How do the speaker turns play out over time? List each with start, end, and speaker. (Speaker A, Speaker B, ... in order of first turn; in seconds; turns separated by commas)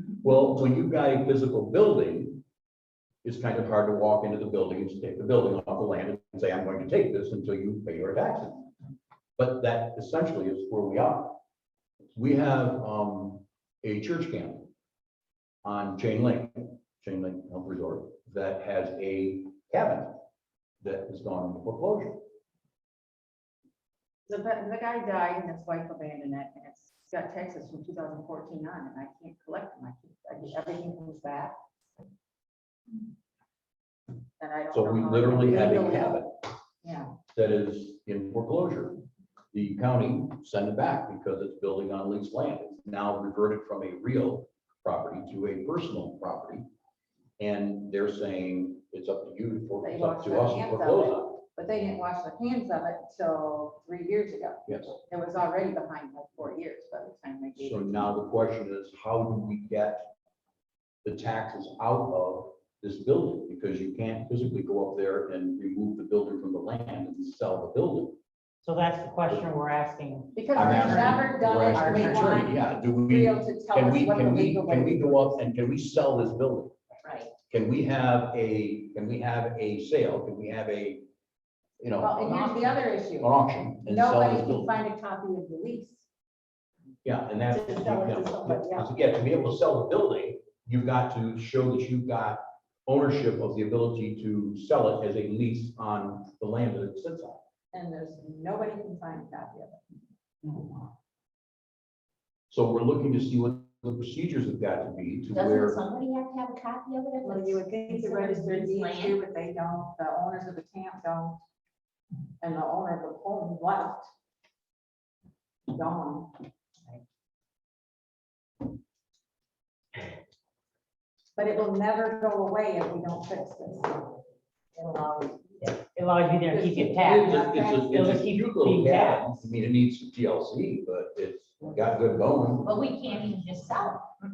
Speaker A: 0.2-2.4, Speaker A: 3.2-8.7, Speaker A: 9.4-11.4, Speaker A: 12.2-14.7, Speaker A: 15.6-20.2, Speaker A: 20.8-22.2, Speaker B: 24.3-31.5, Speaker B: 34.4-36.2, Speaker A: 34.7-36.3, Speaker B: 36.8-37.1, Speaker A: 37.3-39.0, Speaker A: 39.5-46.6, Speaker A: 47.4-51.4, Speaker B: 49.8-58.1, Speaker A: 54.7-55.0, Speaker A: 57.6-60.1, Speaker A: 61.0-68.2, Speaker C: 68.6-72.4, Speaker B: 70.3-75.4, Speaker A: 70.5-76.7, Speaker A: 77.5-81.0, Speaker A: 81.8-84.7, Speaker B: 82.0-83.3, Speaker B: 83.8-86.0, Speaker A: 87.0-97.4, Speaker B: 87.5-88.9, Speaker B: 97.7-99.8, Speaker A: 102.5-105.8, Speaker D: 105.3-109.1, Speaker B: 107.2-111.4, Speaker B: 112.4-114.1, Speaker B: 115.7-116.3, Speaker B: 121.3-124.0, Speaker D: 124.9-125.7, Speaker C: 125.8-129.5, Speaker B: 126.5-127.7, Speaker A: 126.9-132.7, Speaker D: 132.6-134.1